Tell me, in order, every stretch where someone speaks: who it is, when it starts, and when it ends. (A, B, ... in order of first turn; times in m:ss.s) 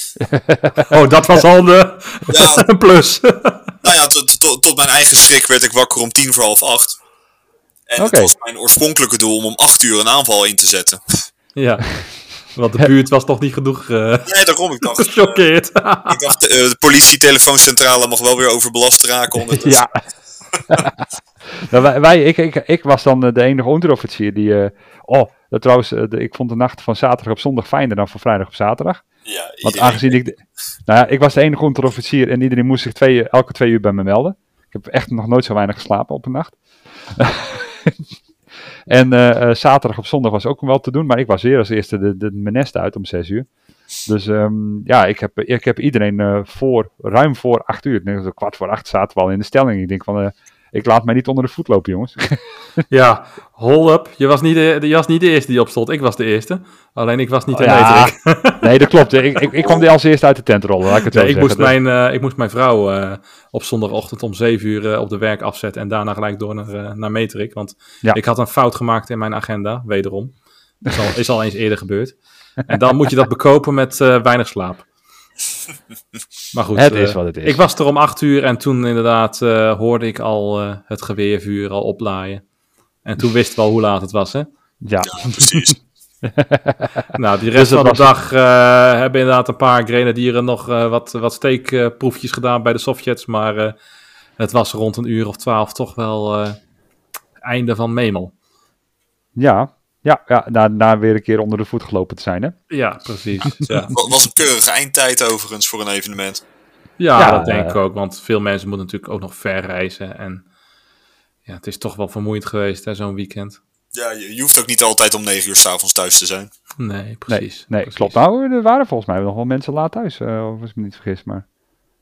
0:00.2-0:00.9 A
0:00.9-0:03.6 B
0:02.3-0:02.7 C
0:03.8-0:07.0 C
0:07.9-0:11.0 C
0:08.0-0:08.3 A
0:11.6-0:14.3 B
0:14.2-0:15.4 C
0:15.0-0:16.2 B
0:16.0-0:19.9 C
0:19.5-0:19.9 A
0:20.7-0:21.0 A
0:21.6-0:29.0 A
0:29.2-0:30.2 C
0:29.6-0:38.0 A
0:38.9-0:43.5 A
0:44.1-0:52.6 A
0:52.9-0:58.6 B
0:57.5-1:01.7 A
1:01.0-1:14.8 B
1:16.5-1:22.4 B
1:16.8-1:17.6 A
1:23.0-1:24.5 B
1:24.8-1:25.7 A
1:25.0-1:25.8 C
1:26.2-1:28.1 A
1:27.2-1:33.7 B
1:34.4-1:36.6 B
1:37.4-1:38.3 B
1:39.4-1:42.6 A
1:42.7-1:43.9 B
1:43.9-1:46.4 C
1:47.0-1:50.4 B
1:47.2-1:47.8 A
1:51.4-1:53.6 B
1:53.9-1:56.5 C
1:56.8-1:58.2 B
1:57.3-2:01.4 A